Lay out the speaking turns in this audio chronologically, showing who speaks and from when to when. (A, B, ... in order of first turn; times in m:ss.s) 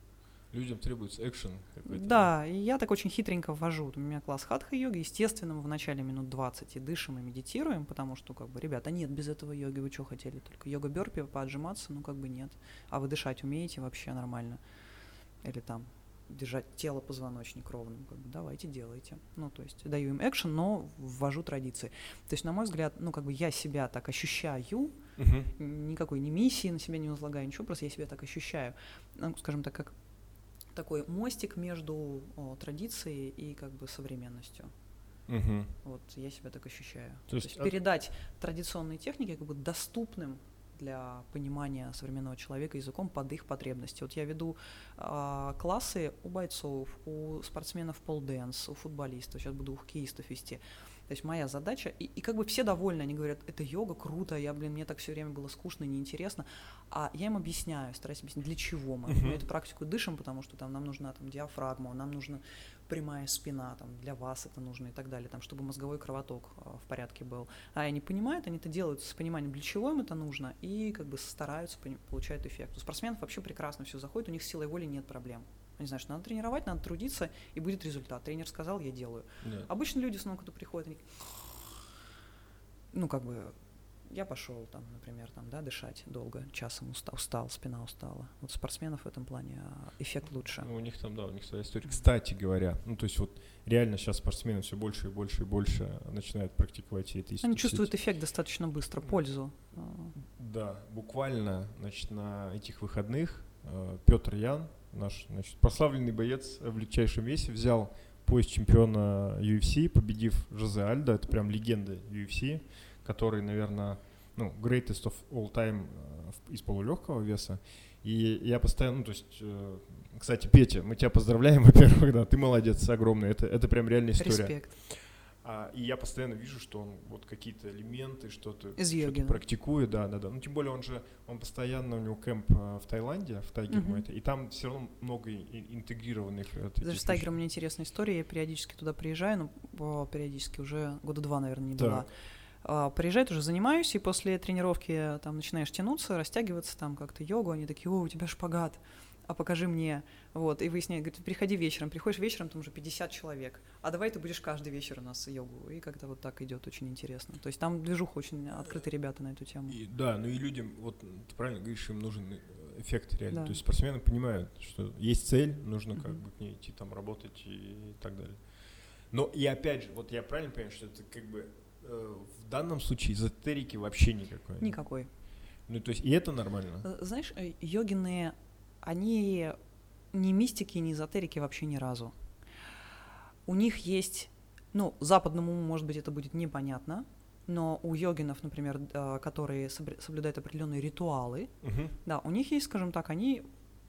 0:00.5-0:02.3 A
0:01.9-0:14.6 B
0:15.4-0:25.0 B
0:25.2-0:25.5 A
0:25.6-0:29.9 B
0:30.7-0:34.7 B
0:35.3-0:35.7 A
0:35.8-1:21.5 B
0:37.3-0:37.7 A
0:59.1-0:59.4 A
1:19.4-1:19.7 A
1:22.9-1:23.6 B
1:24.1-1:30.7 B
1:30.6-1:37.9 A
1:37.4-1:40.1 B
1:40.1-2:17.3 A
2:04.2-2:04.8 B
2:08.8-2:09.4 B
2:13.7-2:14.0 B
2:16.8-2:22.1 B
2:21.8-2:22.1 A
2:22.6-2:39.8 B
2:39.7-2:54.8 A
2:43.3-2:43.6 B
2:54.6-2:55.1 B
2:55.6-2:56.9 A
2:56.8-2:59.6 B
3:00.1-3:02.1 B
3:03.4-3:11.5 B
3:11.6-3:11.9 A
3:12.0-3:13.4 B